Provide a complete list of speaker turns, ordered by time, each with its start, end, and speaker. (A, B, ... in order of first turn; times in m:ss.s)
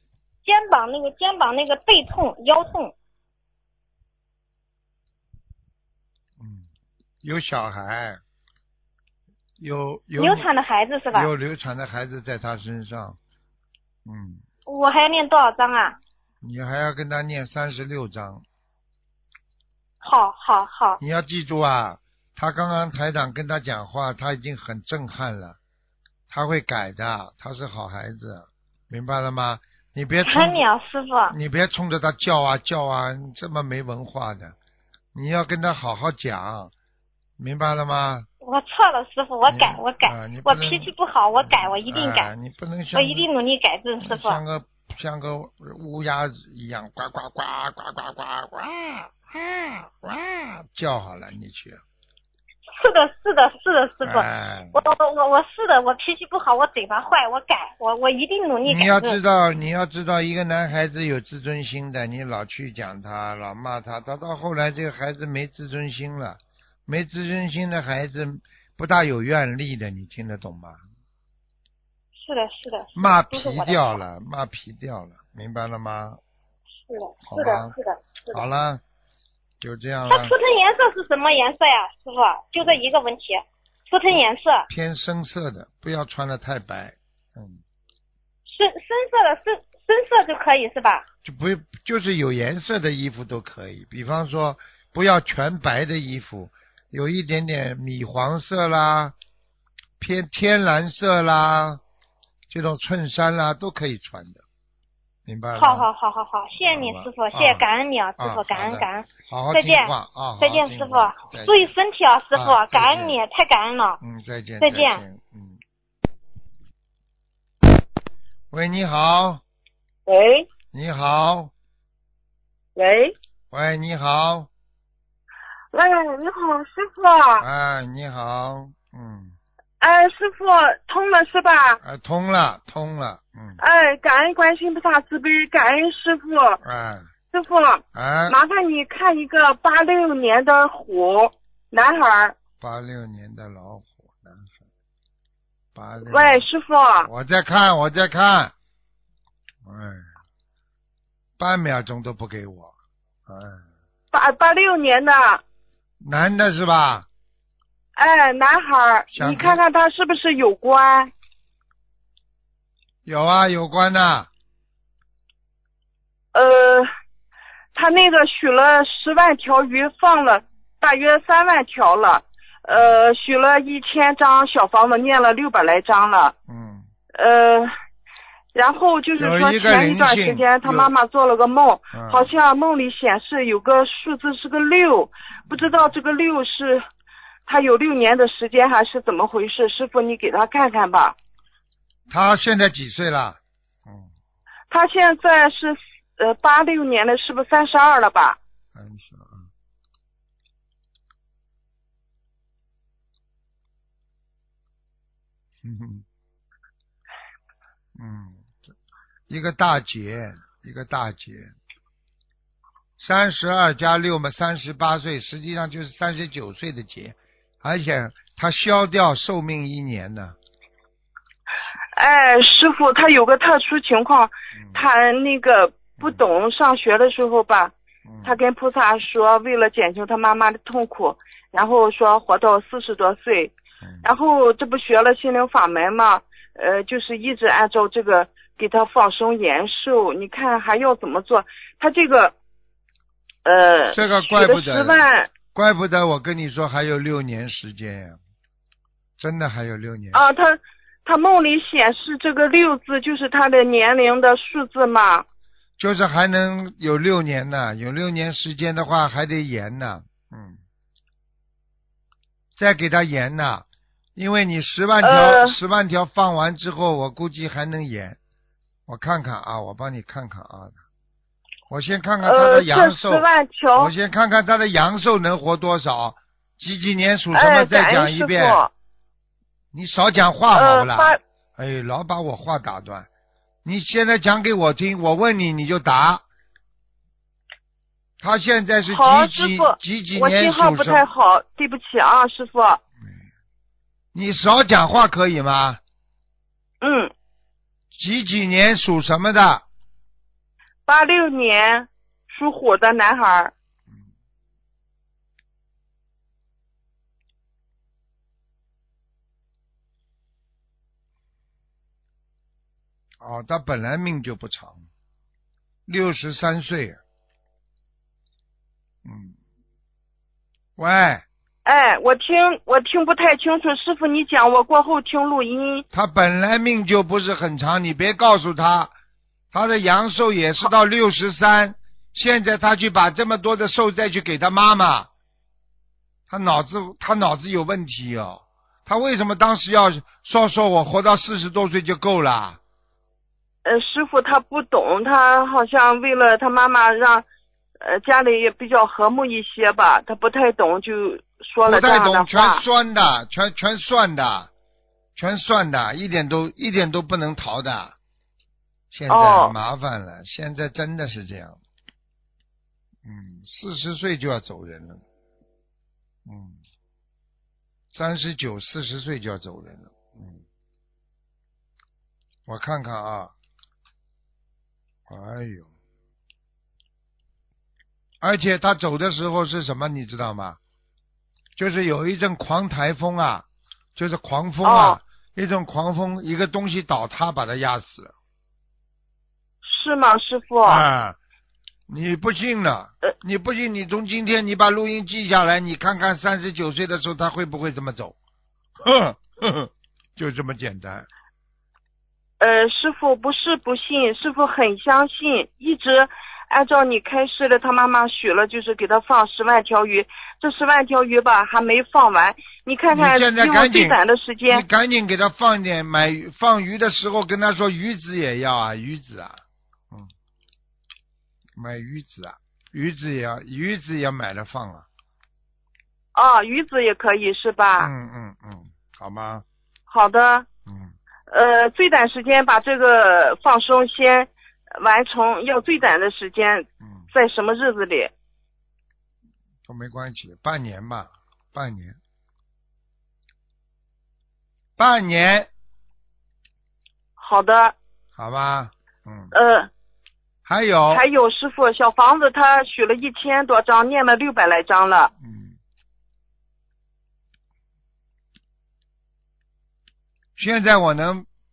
0:00.4-0:02.9 A
0:06.4-0:06.7 B
0:07.2-0:08.2 B
0:09.6-0:10.5 B
0:10.2-0:11.3 A
0:11.1-0:13.2 B
0:14.0-0:14.4 B
0:14.6-0:16.0 A
0:16.4-0:18.4 B
0:20.0-0:21.0 A
0:21.0-0:25.6 B
0:26.3-0:30.6 B
0:30.2-0:31.3 A
0:31.3-0:34.5 B
0:35.1-0:36.7 B
0:37.4-0:38.3 B
0:38.4-0:42.3 A
0:39.5-0:43.3 B
0:42.9-0:44.4 A
0:44.0-0:51.8 B
0:52.8-0:59.2 A
0:54.0-0:54.8 B
0:58.6-1:10.8 B
1:12.2-1:14.0 A
1:13.0-1:16.2 B
1:16.9-1:18.4 A
1:17.2-1:17.7 B
1:18.3-1:18.8 B
1:19.6-1:20.3 B
1:20.1-1:24.7 A
1:24.7-1:27.6 B
1:28.4-1:31.0 A
1:31.2-1:39.1 B
1:40.0-1:41.8 B
1:42.5-1:44.4 B
1:45.2-1:45.9 B
1:45.6-1:54.0 A
1:46.6-1:47.6 B
1:48.2-1:51.7 B
1:52.3-1:53.2 B
1:54.0-1:55.6 B
1:54.6-1:55.0 A
1:58.5-1:59.4 B
2:00.0-2:00.5 C
2:00.7-2:01.5 B
2:02.8-2:03.1 C
2:03.5-2:04.5 B
2:05.7-2:07.4 C
2:07.4-2:09.4 B
2:09.8-2:11.8 C
2:11.8-2:13.6 B
2:13.6-2:16.6 C
2:16.6-2:17.1 B
2:17.3-2:22.3 C
2:17.9-2:18.4 B
2:22.6-2:24.5 B
2:25.7-2:26.4 B
2:26.0-2:27.1 C
2:27.0-2:28.5 B
2:29.6-2:30.1 B
2:31.4-2:32.7 B
2:33.3-2:33.6 B
2:34.1-2:35.4 C
2:36.0-2:37.1 B
2:38.0-2:41.1 C
2:39.1-2:39.6 B
2:43.0-2:44.3 B
2:46.3-2:46.9 C
2:47.7-2:56.3 C
2:56.5-2:56.8 B
2:57.2-2:57.7 C
2:58.5-3:06.8 C
2:59.2-3:00.9 B
3:01.9-3:02.3 B
3:07.5-3:11.1 C
3:12.1-3:14.1 B
3:14.7-3:18.4 C
3:18.7-3:19.5 B
3:25.6-3:26.0 B
3:28.0-3:28.4 B
3:29.3-3:31.5 B
3:33.0-3:40.4 B
3:41.9-3:47.7 C
3:44.6-3:44.8 B
3:48.0-3:48.4 B
3:48.2-4:02.3 C
4:03.4-4:05.3 C
4:03.9-4:08.2 B
4:09.2-4:10.2 B
4:10.1-4:15.2 C
4:15.8-4:20.6 B
4:22.6-4:23.6 B
4:24.2-4:28.2 B
4:25.0-4:25.6 C
4:28.9-4:30.8 B
4:31.7-4:38.6 B
4:32.2-4:33.9 C
4:37.3-4:38.7 C
4:39.7-4:43.1 B
4:40.5-4:41.2 C
4:43.6-4:46.2 B
4:48.2-4:51.0 B
4:48.9-4:52.8 C
4:54.1-4:55.8 B
4:56.8-4:57.1 C
4:57.9-4:59.6 B
5:00.9-5:03.5 C
5:13.2-5:14.8 B
5:15.9-5:17.0 B
5:19.0-5:19.3 B
5:20.8-5:21.2 B
5:21.6-5:25.8 C
5:25.9-5:28.9 B
5:29.5-5:35.1 B
5:36.3-5:42.6 B
5:43.6-5:47.2 C
5:47.8-5:52.6 C
5:51.6-5:54.5 B
5:55.2-5:58.0 B
5:58.9-6:01.6 B
5:59.1-5:59.5 C
6:03.0-6:05.0 B
6:06.2-6:06.6 B
6:07.9-6:10.4 B
6:12.5-6:13.3 B
6:15.1-6:15.7 B
6:18.2-6:20.6 B
6:21.6-6:23.4 B
6:24.0-6:28.1 B
6:24.6-6:25.0 C
6:29.6-6:30.8 C
6:30.6-6:31.2 B
6:31.9-6:38.1 B
6:38.8-6:41.1 B
6:42.4-6:54.6 C
6:52.9-7:00.1 B
7:01.6-7:04.8 B
7:06.1-7:07.9 C
7:07.8-7:09.4 B
7:09.9-7:10.5 C
7:10.6-7:10.9 B
7:11.3-7:18.1 C
7:19.6-7:22.0 B
7:24.8-7:25.5 B
7:27.2-7:27.7 C
7:28.2-7:29.3 B
7:29.3-7:29.7 C
7:30.4-7:31.0 B
7:30.9-7:35.1 C
7:35.2-7:35.5 B
7:40.4-7:41.2 B